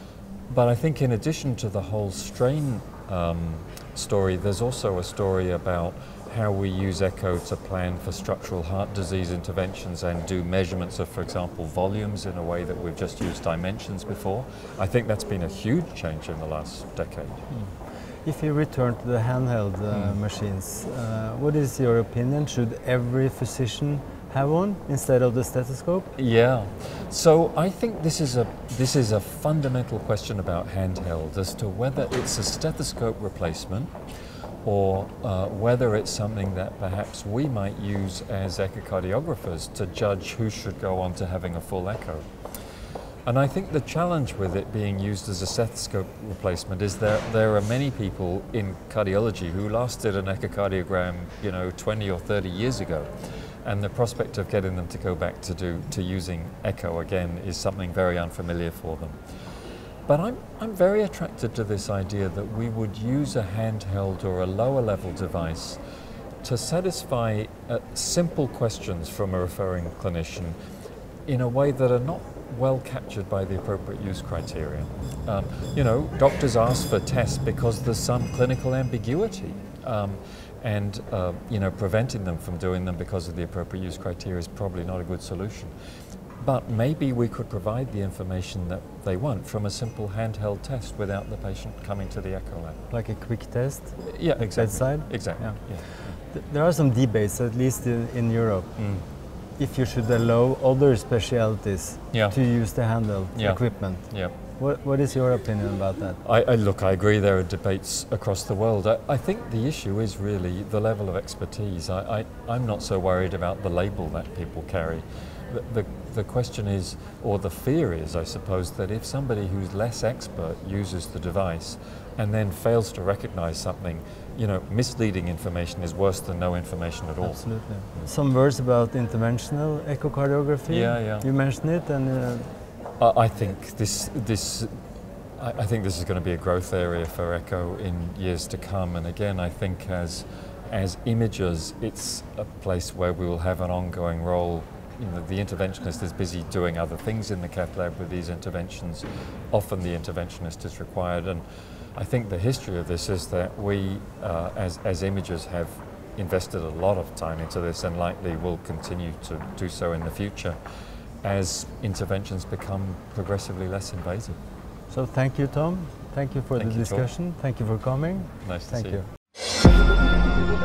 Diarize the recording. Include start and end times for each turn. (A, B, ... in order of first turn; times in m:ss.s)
0:00.5-0:17.4 A
0:18.2-0:26.1 B
0:19.9-0:20.2 A
0:26.2-0:33.9 A
0:34.6-0:42.3 A
0:43.2-0:53.1 A
0:53.6-0:59.2 A
1:00.1-1:05.8 A
1:06.4-1:10.6 A
1:11.3-1:25.7 A
1:26.4-1:32.8 A
1:32.9-1:38.7 B
1:34.1-1:36.2 A
1:38.8-1:39.0 A
1:39.6-1:46.2 B
1:42.1-1:42.4 A
1:43.3-1:44.3 A
1:46.2-2:08.1 A
2:07.2-2:12.5 B
2:10.7-2:11.2 A
2:13.0-2:14.7 A
2:15.4-2:31.4 A
2:32.0-2:40.6 A
2:41.2-2:44.4 A
2:44.9-2:49.0 B
2:46.6-2:47.0 A
2:48.4-2:49.0 A